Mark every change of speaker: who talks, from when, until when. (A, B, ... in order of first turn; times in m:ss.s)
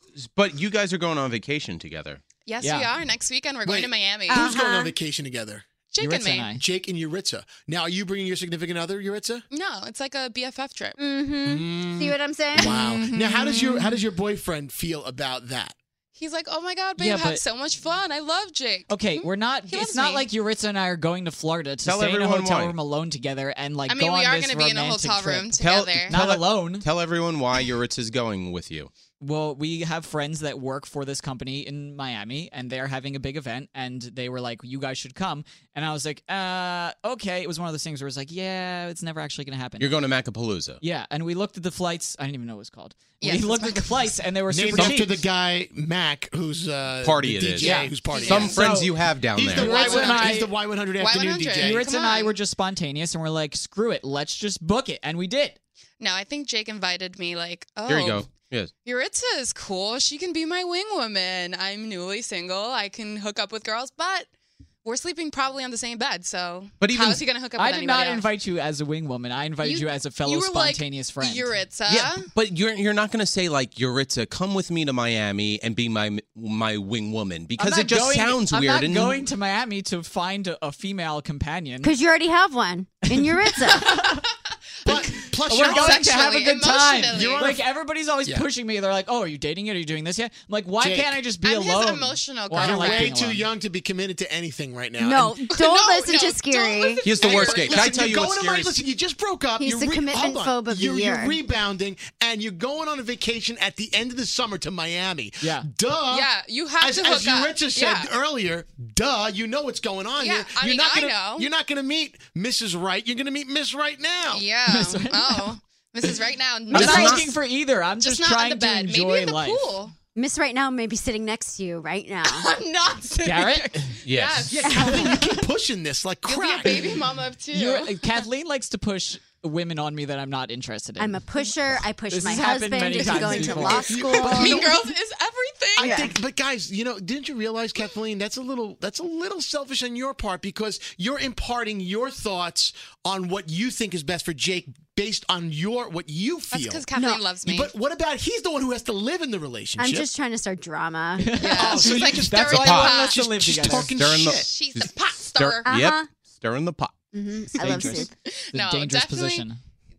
0:00.2-0:02.2 A
0:02.5-0:04.5 B
0:02.6-0:02.9 C
0:03.6-0:05.6 D
0:04.3-0:05.0 E
0:05.9-0:06.5 B
0:06.0-0:06.6 C
0:06.6-0:09.4 D
0:09.5-0:11.0 B
0:11.0-0:13.1 E
0:11.5-0:15.8 D
0:12.7-0:13.9 B
0:16.2-0:20.3 B
0:17.0-0:17.4 C
0:18.9-0:26.9 C
0:21.8-0:22.8 A
0:23.9-0:26.2 B
0:25.6-0:28.9 A
0:29.2-0:40.0 C
0:39.8-0:40.8 A
0:40.8-0:45.2 C
0:43.2-0:44.2 B
0:44.5-0:51.9 D
0:47.0-0:49.8 A
0:47.6-0:49.0 C
0:48.1-0:48.5 B
0:49.6-0:52.4 B
0:49.6-0:50.5 C
0:51.6-0:55.6 C
0:56.0-0:58.3 B
0:57.9-0:58.7 A
0:58.8-1:04.3 B
1:04.8-1:08.3 B
1:06.8-1:07.3 A
1:07.6-1:11.6 C
1:09.6-1:12.3 B
1:11.9-1:19.2 A
1:17.6-1:22.0 C
1:21.8-1:23.9 E
1:23.1-1:24.2 C
1:23.7-1:24.2 B
1:24.8-1:26.1 D
1:24.9-1:27.6 B
1:25.5-1:33.5 C
1:27.1-1:27.7 D
1:30.8-1:31.2 D
1:31.4-1:33.1 B
1:32.6-1:35.4 D
1:35.0-1:37.1 E
1:35.5-1:38.0 B
1:37.0-1:38.8 A
1:37.1-1:46.3 D
1:39.6-1:41.4 E
1:45.4-1:45.7 C
1:46.1-1:48.1 B
1:46.8-1:54.5 D
1:50.2-1:51.5 B
1:54.3-1:57.4 B
1:54.7-1:55.5 C
1:56.7-1:59.7 C
1:56.7-1:57.3 A
1:58.0-1:59.9 B
2:00.2-2:02.4 E
2:02.2-2:05.1 B
2:03.2-2:03.9 C
2:04.0-2:04.5 A
2:04.5-2:06.9 D
2:04.7-2:05.2 E
2:06.2-2:08.2 B
2:07.5-2:11.2 C
2:11.0-2:14.6 E
2:12.1-2:14.5 C
2:13.0-2:13.4 B
2:13.4-2:14.9 D
2:14.1-2:16.0 B
2:15.8-2:26.8 D
2:15.8-2:16.2 E
2:26.5-2:27.7 B
2:26.9-2:27.3 E
2:27.4-2:30.1 D
2:29.8-2:31.8 E
2:31.2-2:34.0 C
2:31.4-2:33.7 B
2:31.5-2:34.6 D
2:32.5-2:33.0 A
2:33.8-2:37.0 A
2:34.3-2:35.7 B
2:35.6-2:36.1 E
2:37.1-2:38.1 E
2:37.6-2:39.6 C
2:37.6-2:39.5 B